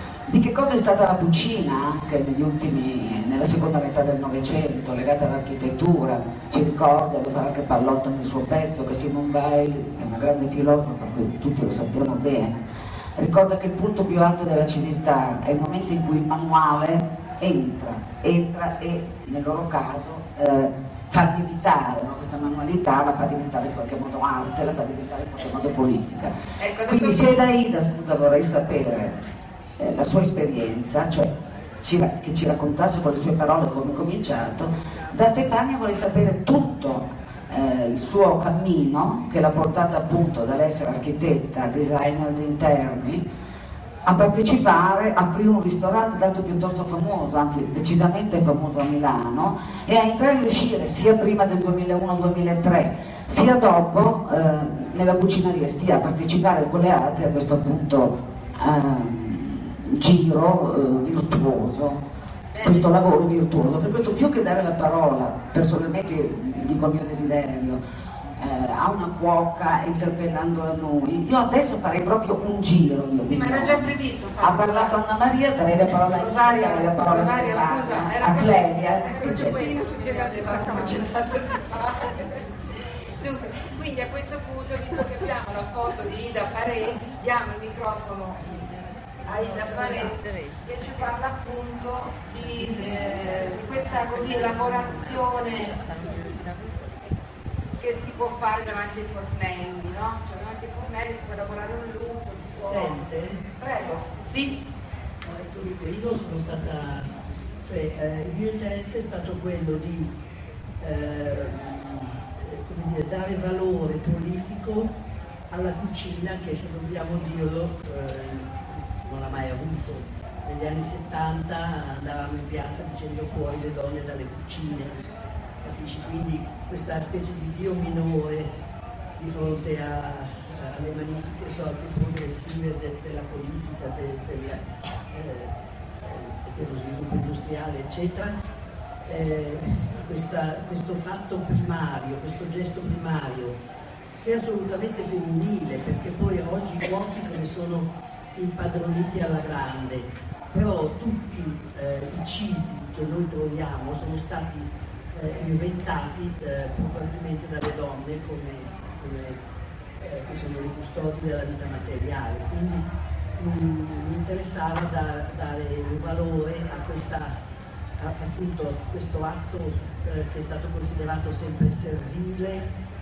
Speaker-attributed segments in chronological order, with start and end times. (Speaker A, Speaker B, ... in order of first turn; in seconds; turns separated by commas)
Speaker A: 0.3-12.6, Speaker A: 13.2-26.4, Speaker B: 26.6-27.4, Speaker A: 26.9-29.2, Speaker A: 29.8-43.2, Speaker A: 44.0-62.0, Speaker B: 62.5-62.9, Speaker A: 62.6-67.8, Speaker A: 68.4-79.8, Speaker B: 73.2-75.0, Speaker B: 75.9-82.5, Speaker B: 83.2-88.7, Speaker B: 89.2-95.8, Speaker C: 95.8-96.9, Speaker B: 97.8-104.6, Speaker C: 102.6-103.4, Speaker C: 105.2-107.1, Speaker C: 107.7-110.1, Speaker C: 110.8-114.9, Speaker C: 115.5-125.1, Speaker C: 125.6-128.5, Speaker C: 129.2-138.4, Speaker C: 139.1-143.6, Speaker C: 144.2-159.4, Speaker C: 160.0-162.8, Speaker C: 163.4-167.4, Speaker C: 168.0-172.7